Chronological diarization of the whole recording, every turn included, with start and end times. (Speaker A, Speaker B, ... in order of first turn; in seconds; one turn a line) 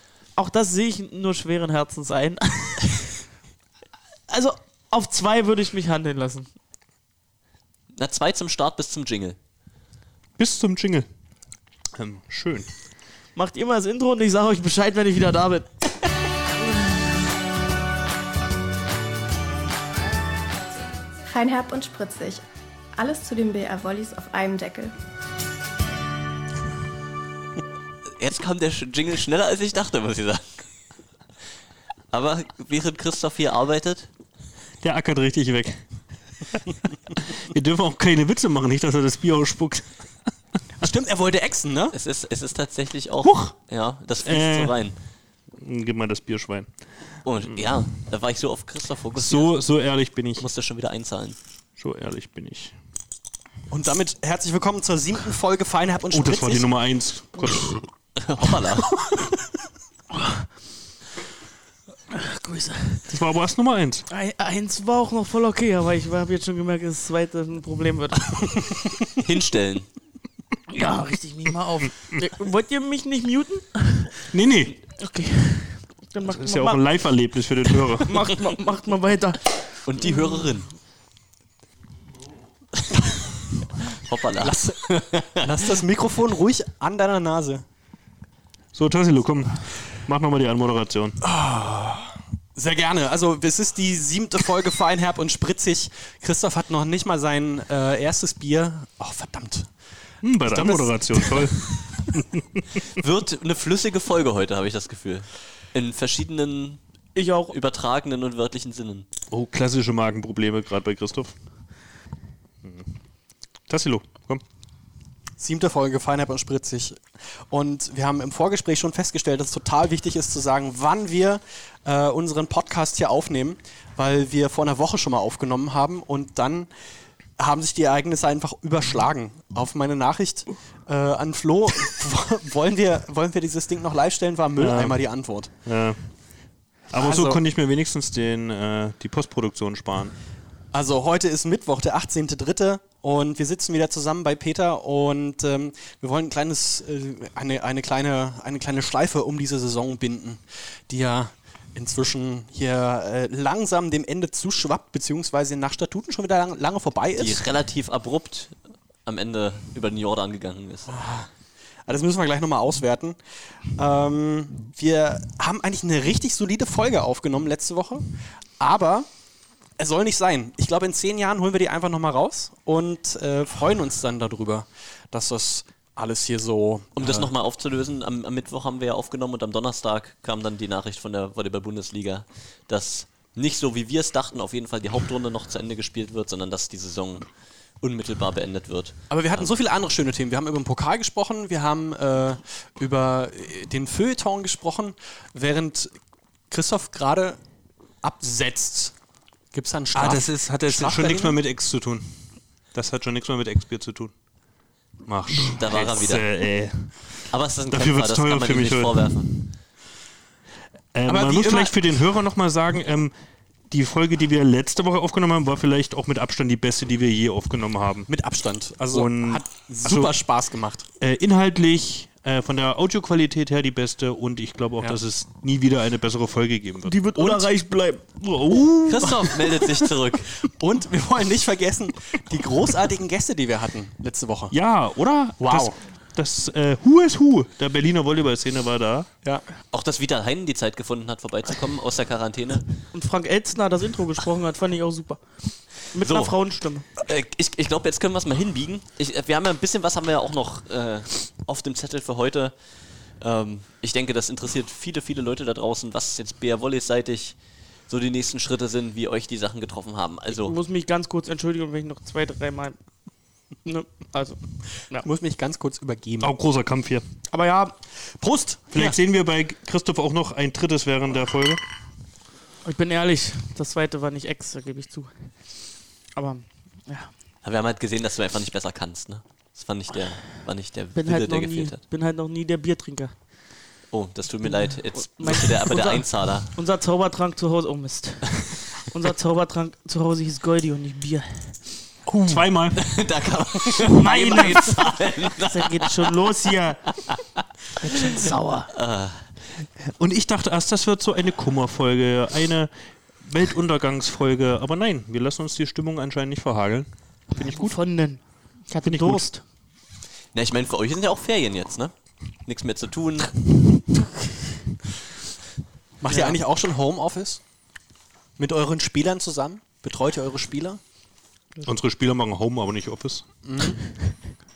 Speaker A: 0.3-3.1
Speaker A: 4.3-6.5
Speaker B: 7.9-9.4
Speaker C: 10.4-11.1
Speaker C: 11.9-12.8
Speaker A: 13.3-15.8
Speaker D: 21.3-22.4
Speaker D: 22.9-24.9
Speaker B: 28.2-30.7
Speaker B: 32.1-34.1
Speaker C: 34.8-40.3
Speaker E: 40.8-41.9
Speaker B: 41.9-45.0
Speaker C: 43.2-43.5
Speaker C: 44.2-44.8
Speaker C: 45.6-47.9
Speaker B: 47.2-49.6
Speaker C: 49.2-50.5
Speaker B: 50.4-51.4
Speaker C: 51.8-52.8
Speaker E: 53.7-57.0
Speaker C: 56.1-57.9
Speaker B: 58.2-58.9
Speaker A: 62.1-63.1
Speaker C: 63.1-64.0
Speaker A: 64.1-68.8
Speaker B: 69.2-69.9
Speaker A: 70.7-74.2
Speaker E: 74.3-74.7
Speaker A: 74.9-76.8
Speaker C: 76.2-78.3
Speaker A: 78.0-80.5
Speaker B: 79.8-80.7
Speaker B: 84.0-85.4
Speaker E: 84.4-87.6
Speaker C: 88.7-91.2
Speaker E: 91.2-101.9
Speaker C: 100.2-102.4
Speaker B: 103.0-106.8
Speaker A: 107.1-107.5
Speaker B: 107.5-109.1
Speaker C: 109.3-111.3
Speaker C: 112.6-113.0
Speaker C: 113.7-114.4
Speaker E: 115.4-135.5
Speaker C: 134.6-140.2
Speaker E: 136.9-137.4
Speaker E: 140.7-157.5
Speaker B: 157.2-161.0
Speaker E: 160.9-161.3
Speaker E: 161.8-169.1
Speaker E: 169.8-177.3
Speaker B: 176.9-189.6
Speaker E: 189.1-197.4
Speaker E: 198.0-199.0
Speaker E: 199.5-201.4
Speaker C: 199.9-204.1
Speaker C: 205.0-209.5
Speaker B: 205.5-206.2
Speaker B: 207.3-209.5
Speaker C: 210.9-213.1
Speaker E: 211.1-211.9
Speaker C: 213.7-218.1
Speaker E: 218.1-220.8
Speaker C: 218.9-220.4
Speaker C: 221.0-227.4
Speaker A: 226.9-228.2
Speaker C: 228.2-228.9
Speaker B: 228.9-230.3
Speaker E: 230.4-235.8
Speaker C: 234.5-239.1
Speaker B: 239.7-242.8
Speaker A: 242.9-246.8
Speaker B: 246.0-260.5
Speaker A: 260.4-265.0
Speaker E: 264.9-266.3
Speaker C: 266.2-267.0
Speaker A: 267.3-267.8
Speaker E: 268.1-268.9
Speaker C: 268.7-271.6
Speaker A: 272.6-277.1
Speaker B: 277.4-281.8
Speaker A: 280.9-283.7
Speaker B: 283.9-286.5
Speaker A: 284.4-291.9
Speaker C: 292.1-292.9
Speaker B: 292.7-295.9
Speaker A: 293.9-297.2
Speaker A: 297.8-298.7
Speaker B: 298.7-299.2
Speaker C: 299.8-309.3
Speaker A: 307.4-309.4
Speaker B: 310.3-313.4
Speaker E: 316.0-317.6
Speaker A: 316.1-316.4
Speaker E: 318.4-320.8
Speaker C: 321.6-323.3
Speaker E: 323.4-324.1